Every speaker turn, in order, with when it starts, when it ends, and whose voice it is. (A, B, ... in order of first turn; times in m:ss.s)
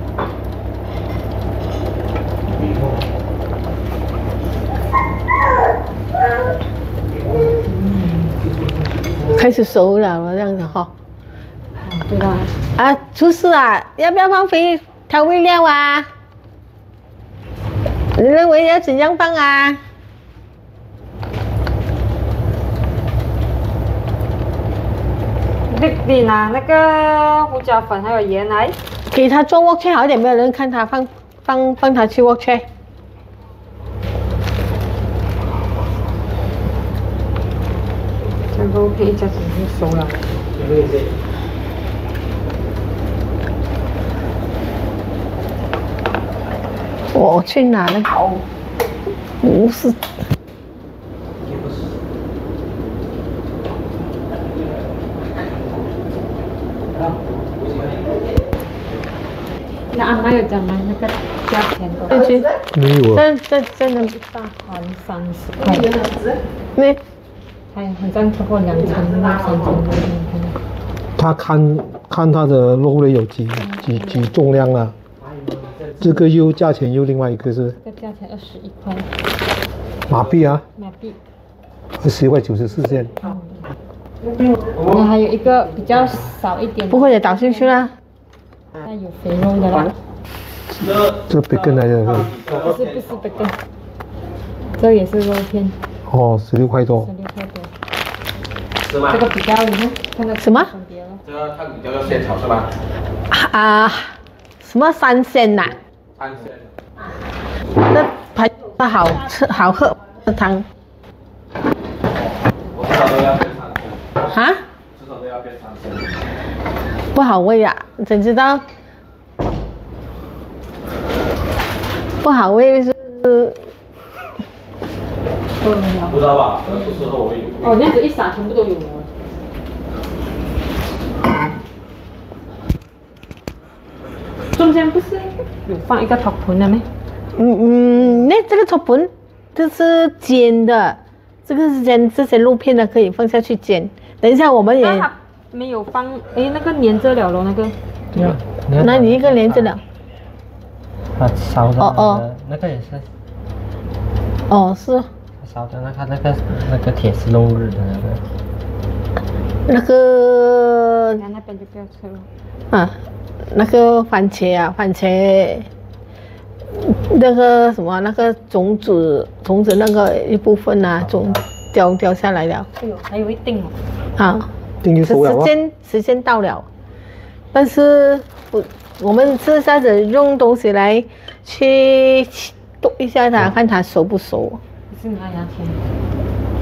0:07.6-0:08.3 A
0:09.3-0:10.9 B
0:11.8-0:12.5 A
0:12.8-0:16.1 B
0:18.1-0:19.8 B
0:25.7-0:28.8 A
0:29.1-0:32.6 B
0:38.5-0:40.2 A
0:40.6-0:41.0 C
0:47.1-0:48.4 B
0:49.4-0:50.0 B
0:51.4-0:51.9 C
0:56.9-0:58.1 C
0:59.9-1:02.4 A
1:02.1-1:02.5 B
1:02.7-1:03.2 D
1:03.1-1:04.1 B
1:04.0-1:06.0 A
1:07.7-1:10.6 A
1:11.2-1:14.9 D
1:13.7-1:14.3 A
1:16.0-1:17.8 D
1:17.8-1:19.1 A
1:20.1-1:20.6 D
1:20.8-1:21.2 A
1:22.0-1:23.2 D
1:23.2-1:23.6 A
1:24.7-1:27.7 A
1:26.9-1:27.9 B
1:28.8-1:29.9 A
1:30.8-1:31.6 C
1:31.1-1:32.4 D
1:32.2-1:33.0 C
1:32.6-1:33.6 A
1:34.8-1:35.8 A
1:36.1-1:37.1 D
1:37.0-1:37.7 A
1:38.8-1:39.2 C
1:39.0-1:41.2 A
1:40.4-1:40.7 B
1:41.2-1:42.7 C
1:43.3-1:45.8 B
1:46.2-1:46.7 C
1:47.9-1:50.6 B
1:52.7-1:54.0 C
1:54.3-1:54.6 B
1:54.9-1:56.2 C
1:57.1-1:58.6 B
2:02.2-2:03.6 B
2:05.6-2:06.2 A
2:06.1-2:07.8 C
2:07.6-2:09.1 A
2:14.5-2:16.8 A
2:17.3-2:25.1 B
2:24.8-2:27.8 A
2:28.1-2:29.7 E
2:28.8-2:29.8 B
2:31.2-2:33.1 E
2:31.8-2:32.2 B
2:34.5-2:35.1 B
2:35.4-2:38.2 E
2:39.7-2:41.2 B
2:41.2-2:42.3 A
2:42.7-2:43.0 B
2:43.5-2:45.7 B
2:46.7-2:52.7 B
2:52.8-2:53.7 A
2:54.2-2:54.5 B
2:54.8-2:55.5 D
2:55.0-2:56.6 B
2:57.5-3:04.6 B
3:04.9-3:05.8 A